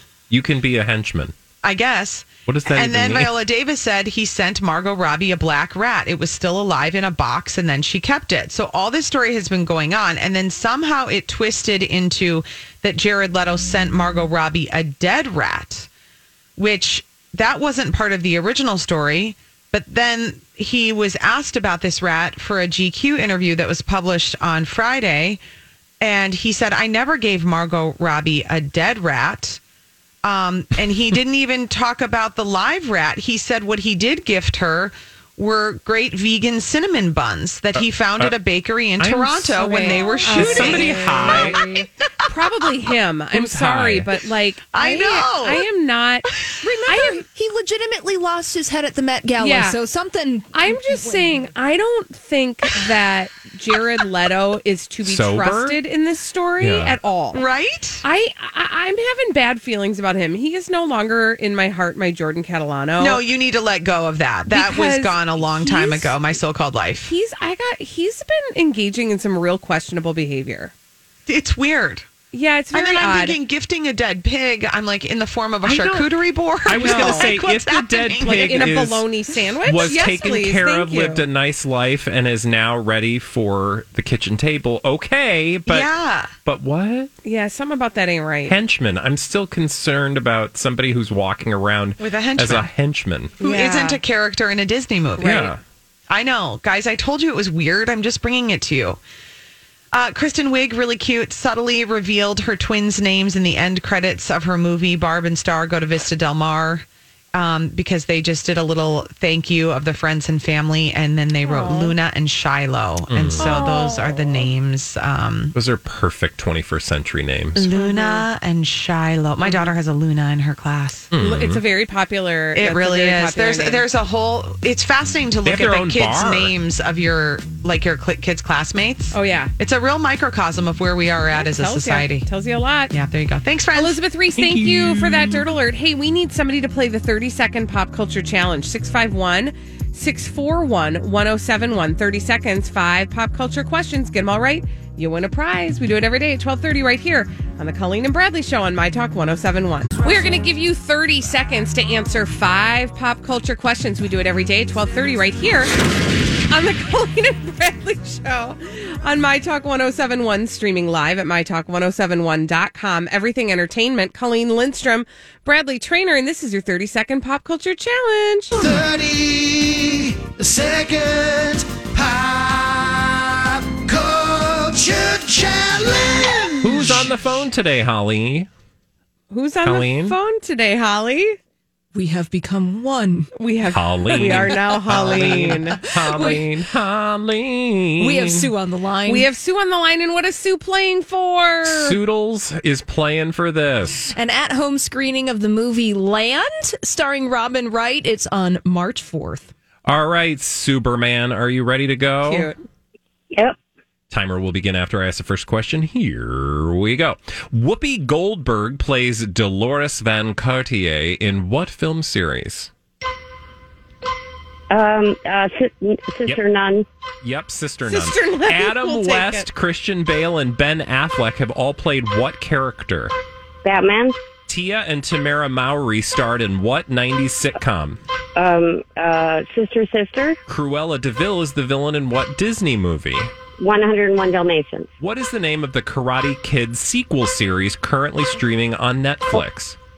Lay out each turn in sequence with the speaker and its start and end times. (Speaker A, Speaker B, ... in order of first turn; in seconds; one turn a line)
Speaker A: 0.3-1.3
Speaker B: 1.6-15.9
Speaker A: 2.5-3.3
Speaker B: 16.6-25.4
Speaker B: 26.0-29.6
Speaker B: 30.2-42.5
Speaker A: 37.7-38.3
Speaker A: 39.0-41.6
Speaker C: 39.6-47.2
Speaker A: 43.3-44.1
Speaker B: 44.7-45.6
Speaker B: 46.4-46.9
Speaker D: 47.1-51.5
Speaker C: 49.4-49.8
Speaker C: 50.5-57.4
Speaker A: 55.0-55.8
Speaker A: 56.6-57.0
Speaker B: 57.3-58.0
Speaker C: 58.0-63.2
Speaker B: 63.0-67.1
Speaker C: 64.5-66.4
Speaker C: 67.0-70.7
Speaker B: 71.2-72.1
Speaker C: 72.3-73.4
Speaker B: 72.7-78.8
Speaker A: 75.6-76.1
Speaker A: 76.6-79.1
Speaker C: 76.8-77.3
Speaker C: 78.2-81.2
Speaker A: 79.6-85.9
Speaker B: 79.8-80.3
Speaker B: 85.7-86.3
Speaker A: 86.4-87.1
Speaker C: 87.2-88.6
Speaker A: 88.5-93.3
Speaker B: 92.0-92.7
Speaker C: 93.4-94.0
Speaker B: 93.4-95.5
Speaker C: 95.2-95.5
Speaker A: 95.2-95.6
Speaker B: 96.1-99.0
Speaker B: 99.9-115.5
Speaker C: 111.5-112.0
Speaker A: 113.1-113.5
Speaker C: 113.4-114.5
Speaker A: 115.5-117.6
Speaker B: 117.5-121.1
Speaker C: 117.7-118.2
Speaker C: 119.4-119.7
Speaker A: 121.1-121.6
Speaker C: 121.2-123.8
Speaker B: 122.5-132.3
Speaker A: 125.4-126.5
Speaker C: 129.1-129.5
Speaker C: 131.3-132.9
Speaker B: 132.9-134.0
Speaker C: 133.7-155.7
Speaker A: 134.3-135.5
Speaker C: 156.5-168.5
Speaker E: 168.5-177.2
Speaker A: 176.6-178.5
Speaker C: 179.3-181.4
Speaker A: 179.6-180.2
Speaker D: 181.9-183.3
Speaker C: 183.3-186.4
Speaker A: 183.7-188.5
Speaker D: 184.2-186.4
Speaker D: 188.0-189.3
Speaker C: 189.1-192.0
Speaker A: 191.6-194.1
Speaker D: 194.1-199.5
Speaker A: 199.8-202.5
Speaker C: 202.2-202.6
Speaker A: 204.1-212.7
Speaker F: 214.7-216.8
Speaker A: 217.2-223.1
Speaker C: 217.9-219.5
Speaker F: 223.6-224.1
Speaker A: 224.5-228.0
Speaker F: 228.3-230.4
Speaker A: 230.5-233.3
Speaker F: 233.6-234.9
Speaker A: 235.0-239.8